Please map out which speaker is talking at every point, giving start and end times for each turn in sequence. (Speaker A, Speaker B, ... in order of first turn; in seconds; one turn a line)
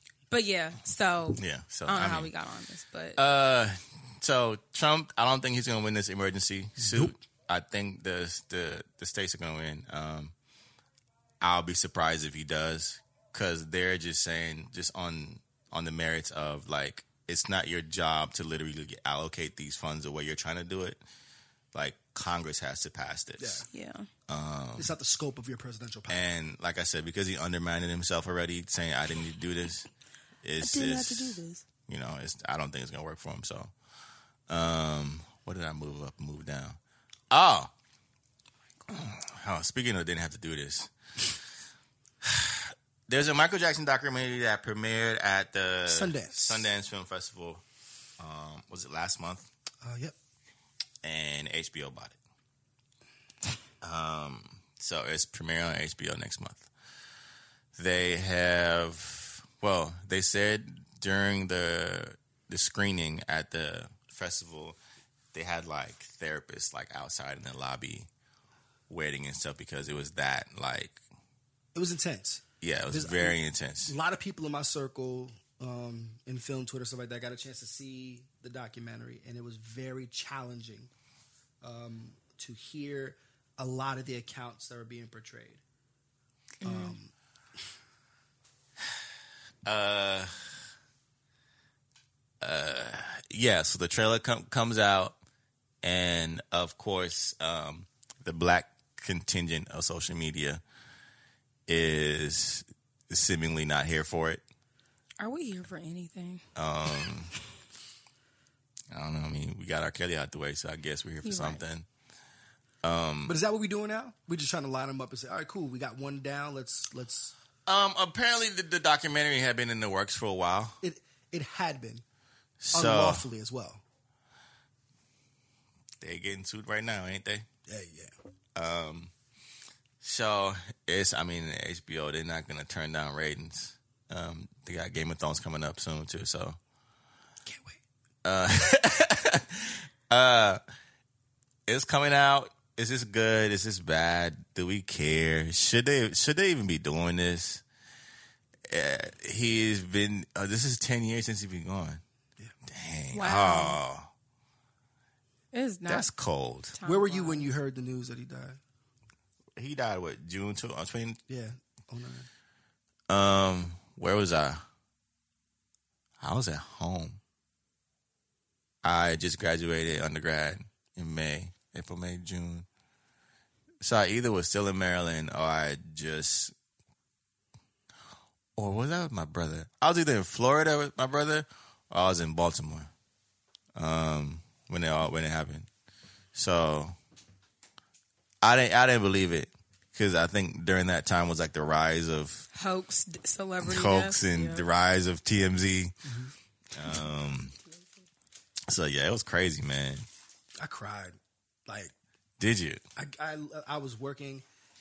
Speaker A: 0.3-3.2
Speaker B: 1.4-2.3
Speaker B: 3.1-10.3
Speaker C: 6.8-7.1
Speaker B: 11.4-21.0
Speaker B: 21.7-23.6
Speaker C: 23.4-23.6
Speaker A: 23.7-24.1
Speaker B: 24.3-24.9
Speaker C: 24.8-26.2
Speaker B: 26.1-29.9
Speaker B: 30.4-33.7
Speaker A: 30.6-31.6
Speaker B: 34.5-36.8
Speaker B: 37.3-37.7
Speaker B: 38.9-40.9
Speaker B: 42.2-47.6
Speaker C: 45.9-46.7
Speaker B: 48.2-49.5
Speaker C: 49.8-50.1
Speaker B: 51.0-52.2
Speaker B: 53.8-56.7
Speaker B: 57.8-64.8
Speaker B: 65.3-68.1
Speaker B: 68.9-71.0
Speaker C: 71.7-80.9
Speaker B: 72.6-73.9
Speaker C: 81.6-85.6
Speaker A: 86.6-87.0
Speaker C: 86.6-87.1
Speaker B: 89.6-90.3
Speaker B: 92.4-95.2
Speaker B: 95.8-100.6
Speaker B: 101.7-104.4
Speaker A: 105.2-106.4
Speaker B: 106.5-107.3
Speaker B: 108.9-111.9
Speaker A: 111.2-111.6
Speaker B: 112.8-113.4
Speaker C: 113.2-117.3
Speaker B: 117.7-120.8
Speaker C: 120.8-122.0
Speaker B: 122.6-123.2
Speaker C: 122.7-123.8
Speaker B: 126.0-127.5
Speaker C: 127.7-128.1
Speaker B: 128.6-129.1
Speaker B: 130.0-136.6
Speaker C: 137.4-137.8
Speaker B: 138.2-140.6
Speaker B: 141.7-147.6
Speaker B: 148.7-152.0
Speaker B: 152.6-154.1
Speaker A: 153.1-153.8
Speaker A: 155.5-156.1
Speaker B: 155.9-156.7
Speaker A: 156.7-157.5
Speaker C: 156.8-158.6
Speaker B: 159.6-161.2
Speaker C: 161.3-162.3
Speaker B: 163.1-164.6
Speaker B: 166.2-167.2
Speaker B: 168.8-172.7
Speaker B: 173.8-176.5
Speaker B: 178.6-182.9
Speaker B: 183.7-185.7
Speaker B: 186.3-186.9
Speaker B: 188.4-192.5
Speaker A: 192.5-194.6
Speaker B: 193.6-195.9
Speaker C: 196.1-196.3
Speaker B: 196.7-197.6
Speaker B: 198.7-200.1
Speaker C: 200.6-201.9
Speaker B: 202.4-202.8
Speaker C: 203.0-204.4